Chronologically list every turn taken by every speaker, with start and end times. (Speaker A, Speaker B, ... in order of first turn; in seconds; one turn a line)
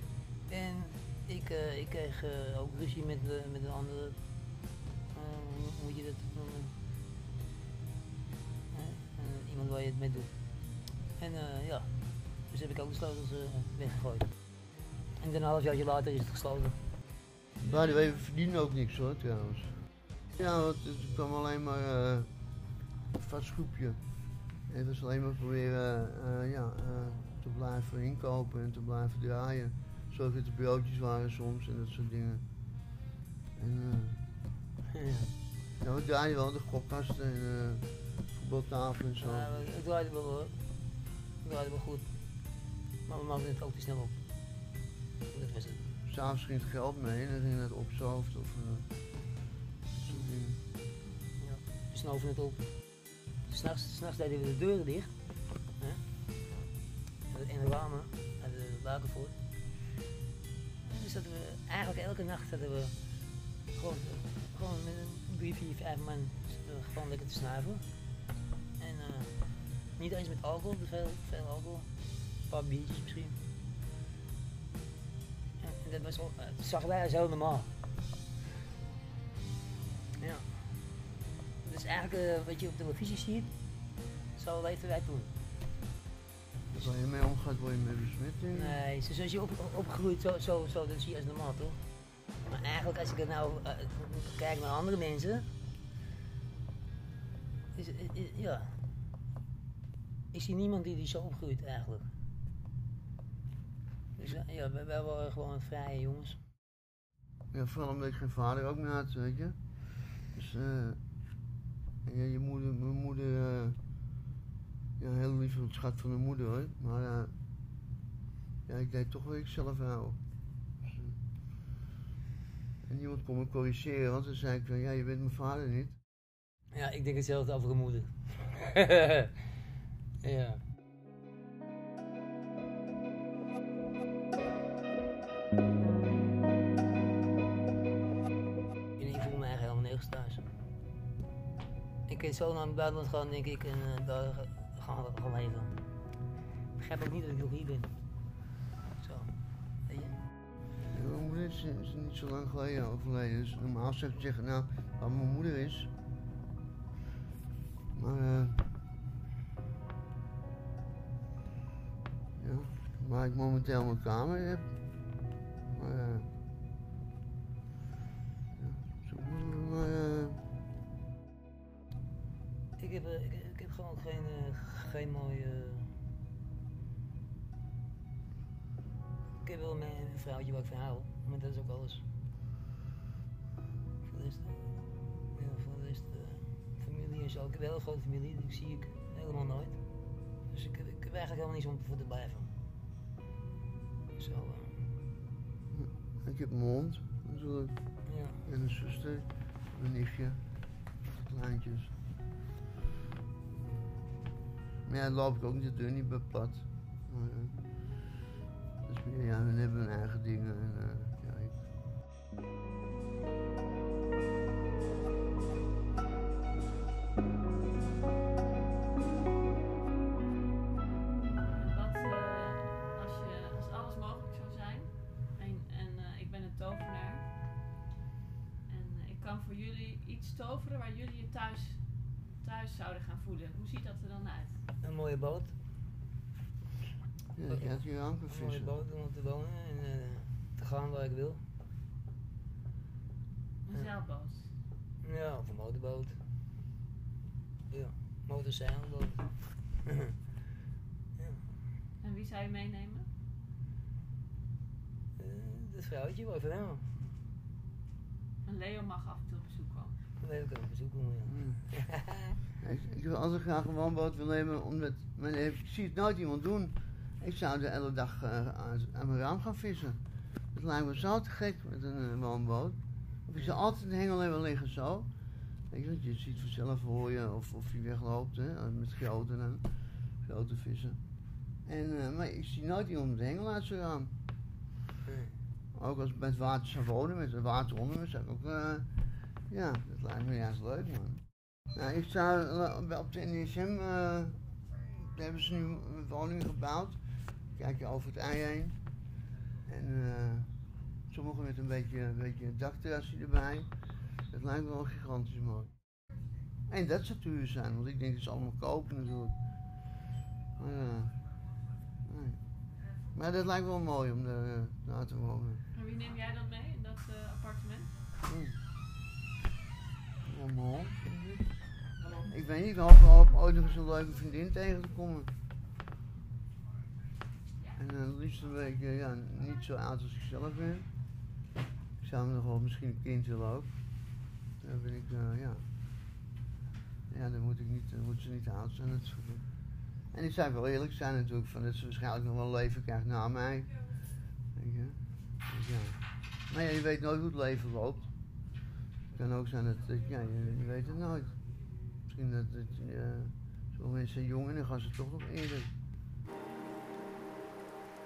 Speaker A: 0.5-4.2
Speaker A: 5.1-6.8
Speaker A: 8.7-10.3
Speaker A: 11.2-11.9
Speaker A: 12.5-14.3
Speaker A: 15.2-16.8
Speaker B: 17.6-19.7
Speaker C: 17.7-18.1
Speaker B: 20.4-22.3
Speaker B: 23.1-24.0
Speaker B: 24.7-32.5
Speaker B: 33.6-34.2
Speaker A: 34.9-35.3
Speaker B: 35.8-39.6
Speaker A: 39.2-40.6
Speaker A: 41.4-42.1
Speaker A: 43.1-44.2
Speaker A: 45.3-45.9
Speaker B: 46.0-48.9
Speaker B: 50.0-50.6
Speaker A: 51.4-52.6
Speaker A: 53.5-55.1
Speaker A: 57.3-59.4
Speaker A: 60.8-63.0
Speaker A: 63.7-67.9
Speaker A: 68.8-69.4
Speaker A: 70.0-71.9
Speaker A: 72.5-73.4
Speaker A: 75.6-77.7
Speaker A: 80.2-80.7
Speaker A: 81.6-83.5
Speaker A: 84.3-85.3
Speaker B: 86.7-88.8
Speaker A: 88.5-91.8
Speaker A: 92.5-95.5
Speaker A: 97.7-98.8
Speaker A: 100.3-102.1
Speaker A: 104.2-106.4
Speaker B: 107.5-109.6
Speaker B: 110.3-111.0
Speaker B: 112.0-113.8
Speaker B: 115.0-117.3
Speaker B: 118.7-120.2
Speaker B: 120.8-121.2
Speaker B: 122.8-126.0
Speaker A: 126.7-129.3
Speaker A: 130.2-130.6
Speaker A: 139.0-140.4
Speaker A: 142.1-145.8
Speaker A: 146.8-147.9
Speaker A: 149.0-150.2
Speaker B: 150.9-155.9
Speaker B: 157.9-158.6
Speaker B: 162.4-164.7
Speaker B: 165.7-166.3
Speaker B: 168.5-170.4
Speaker A: 172.8-175.9
Speaker A: 179.4-182.1
Speaker A: 184.0-184.8
Speaker A: 185.3-189.8
Speaker A: 190.5-192.5
Speaker A: 194.2-194.9
Speaker B: 195.7-197.8
Speaker A: 198.1-198.4
Speaker B: 198.4-200.4
Speaker B: 201.0-201.9
Speaker B: 204.9-207.6
Speaker B: 208.8-211.6
Speaker C: 221.5-227.3
Speaker C: 228.7-234.6
Speaker A: 234.8-235.6
Speaker B: 237.3-238.8
Speaker A: 237.5-241.4
Speaker C: 243.7-244.5
Speaker A: 245.0-246.2
Speaker A: 247.7-249.3
Speaker A: 251.2-251.4
Speaker C: 252.0-253.1
Speaker A: 255.2-257.0
Speaker C: 258.4-260.0
Speaker A: 260.2-262.4
Speaker B: 261.3-261.6
Speaker B: 262.6-270.0
Speaker B: 270.5-275.1
Speaker B: 275.7-279.6
Speaker B: 280.2-281.0
Speaker B: 281.6-284.1
Speaker A: 285.1-285.4
Speaker B: 285.7-288.9
Speaker B: 289.5-297.0
Speaker B: 297.6-298.8
Speaker B: 299.7-300.5
Speaker B: 301.1-303.7
Speaker B: 304.3-305.7
Speaker B: 306.7-309.4
Speaker B: 310.6-311.2
Speaker B: 312.1-312.4
Speaker B: 313.1-315.6
Speaker C: 315.8-317.9
Speaker B: 318.2-318.6
Speaker B: 320.2-321.5
Speaker B: 322.2-325.3
Speaker B: 327.8-330.9
Speaker B: 332.0-333.7
Speaker B: 334.6-335.6
Speaker B: 337.1-339.4
Speaker B: 340.1-343.7
Speaker B: 344.6-348.1
Speaker B: 349.1-351.3
Speaker B: 352.1-355.7